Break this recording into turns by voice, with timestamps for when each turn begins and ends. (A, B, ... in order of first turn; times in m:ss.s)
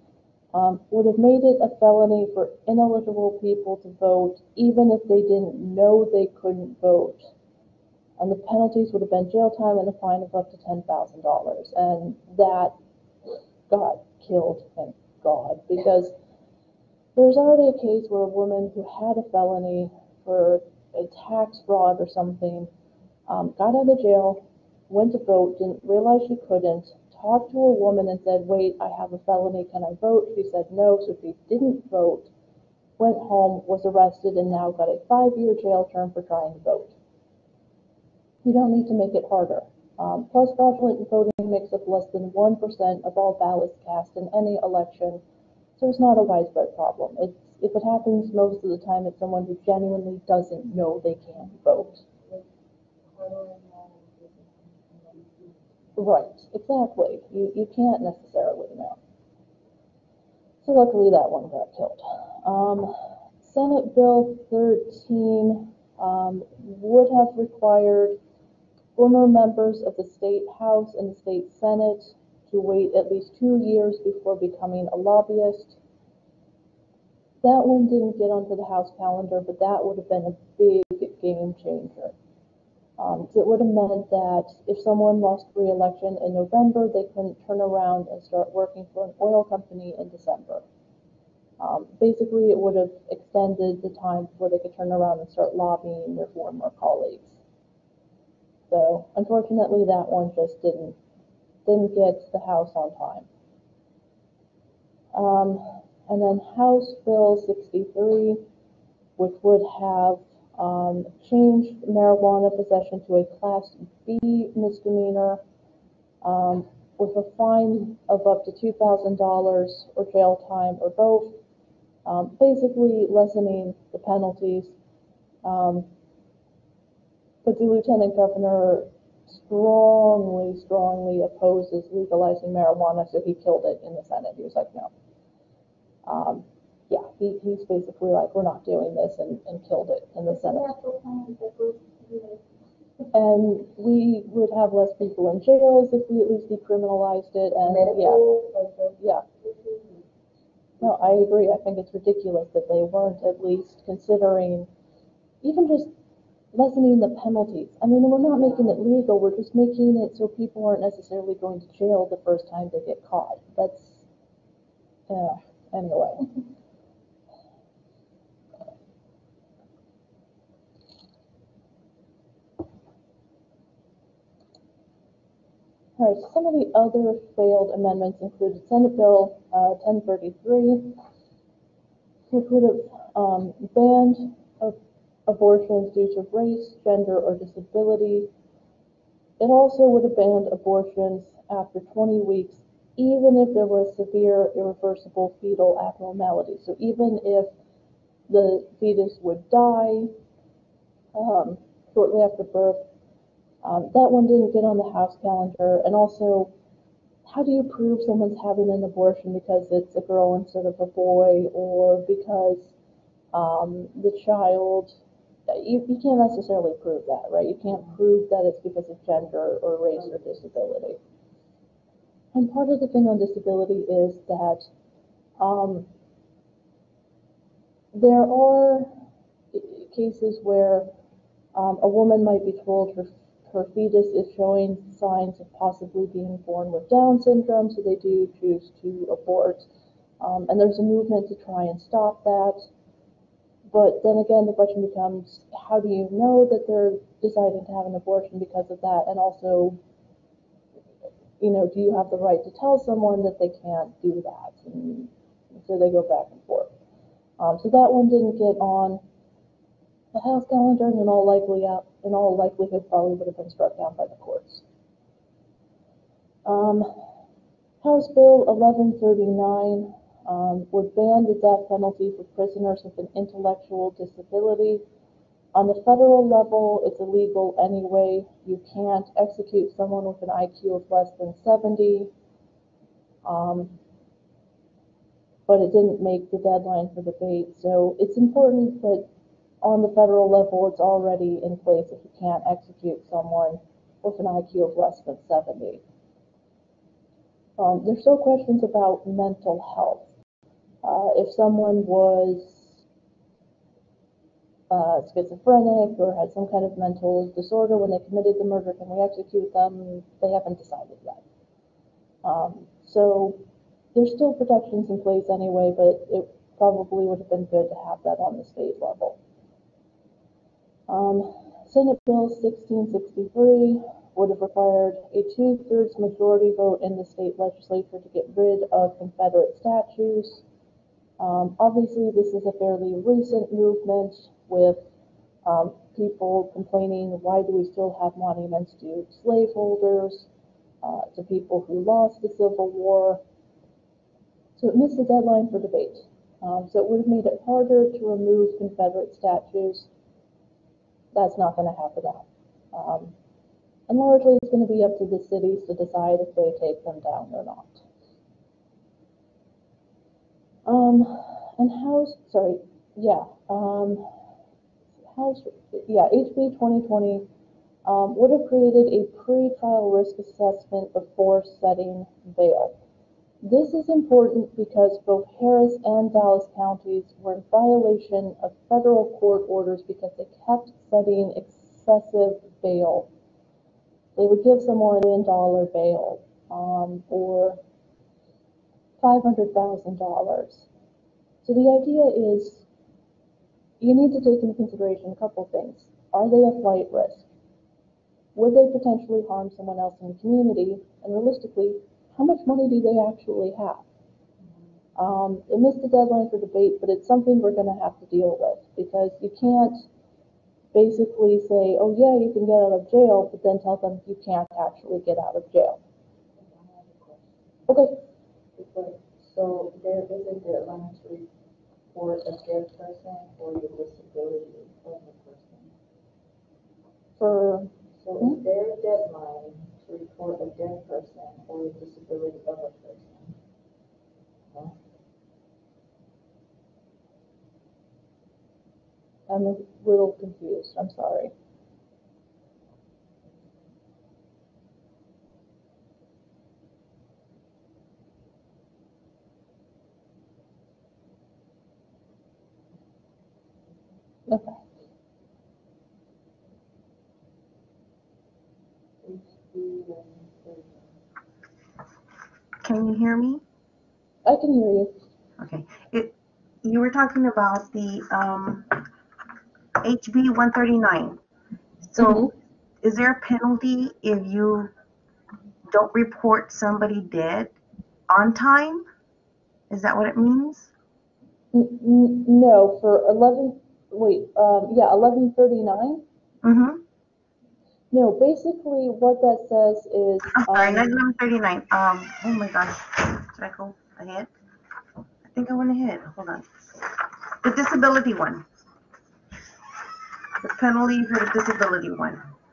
0:00.5-0:07.3 A
0:08.2-0:12.7 A
0:13.7-0:16.1 A
0:17.1-0:22.7 A
0:23.3-0:32.3 A
0:33.0-0:36.9 A
0:38.4-0:45.2 A
0:45.8-0:52.0 A
0:53.1-0:55.8 B
0:56.0-0:59.0 A
1:00.6-1:08.2 A
1:09.0-1:15.8 A
1:17.4-1:22.1 A
1:23.0-1:30.6 A
1:31.6-1:37.4 A
1:38.7-1:41.0 A
1:41.6-1:43.3 A
1:45.1-1:48.4 A
1:49.2-1:55.4 A
1:56.2-2:01.4 A
2:02.0-2:04.8 A
2:05.4-2:05.9 A
2:07.4-2:14.9 A
2:16.0-2:20.7 A
2:20.3-2:22.4 B
2:23.1-2:28.2 A
2:27.6-2:30.0 B
2:30.8-2:34.7 A
2:35.4-2:35.9 A
2:36.5-2:44.0 A
2:45.1-2:46.3 A
2:56.0-3:01.0 A
3:02.3-3:04.8 A
3:05.3-3:08.3 A
3:09.4-3:17.5 A
3:18.3-3:20.1 A
3:21.1-3:22.8 A
3:23.6-3:26.5 A
3:27.2-3:32.7 A
3:33.3-3:34.9 A
3:35.5-3:41.0 A
3:42.3-3:44.7 A
3:45.4-3:45.9 A
3:47.9-3:48.9 A
3:49.5-3:50.9 A
3:51.5-3:59.6 A
4:00.2-4:02.6 A
4:03.7-4:09.8 A
4:11.4-4:16.7 A
4:17.4-4:19.0 A
4:20.1-4:24.6 A
4:26.4-4:26.9 A
4:27.8-4:34.8 A
4:35.5-4:42.1 A
4:43.2-4:43.7 A
4:45.5-4:49.0 A
4:49.6-4:55.8 A
4:57.6-5:00.1 A
5:00.8-5:02.8 A
5:04.7-5:11.2 A
5:12.2-5:13.4 A
5:13.9-5:19.2 A
5:20.9-5:30.4 A
5:31.2-5:34.8 A
5:35.4-5:40.3 A
5:40.8-5:43.2 A
5:44.6-5:49.9 A
5:51.1-5:53.1 A
5:53.9-5:57.8 A
6:00.6-6:04.1 A
6:05.0-6:07.2 A
6:07.8-6:12.8 A
6:13.4-6:23.1 A
6:24.2-6:27.6 A
6:29.0-6:30.7 A
6:31.4-6:32.6 A
6:33.8-6:37.3 A
6:38.3-6:43.8 A
6:45.0-6:49.8 A
6:50.7-6:55.8 A
6:56.4-6:57.7 B
6:57.7-6:58.0 A
6:58.6-7:01.3 B
7:01.9-7:05.7 B
7:07.2-7:07.7 A
7:08.0-7:13.4 B
7:19.3-7:21.3 A
7:34.3-7:34.6 A
7:39.0-7:41.0 B
7:42.6-7:43.4 C
7:44.2-7:44.9 A
7:45.4-7:48.8 C
7:49.8-7:51.2 C
7:51.9-7:52.3 C
7:52.0-7:52.3 A
7:52.8-7:54.7 C
7:55.7-7:57.6 C
7:58.1-7:58.8 C
7:59.7-8:00.7 C
8:01.5-8:06.0 A
8:06.4-8:06.8 C
8:07.9-8:11.0 A
8:10.4-8:14.3 C
8:15.2-8:18.4 C
8:20.4-8:22.2 C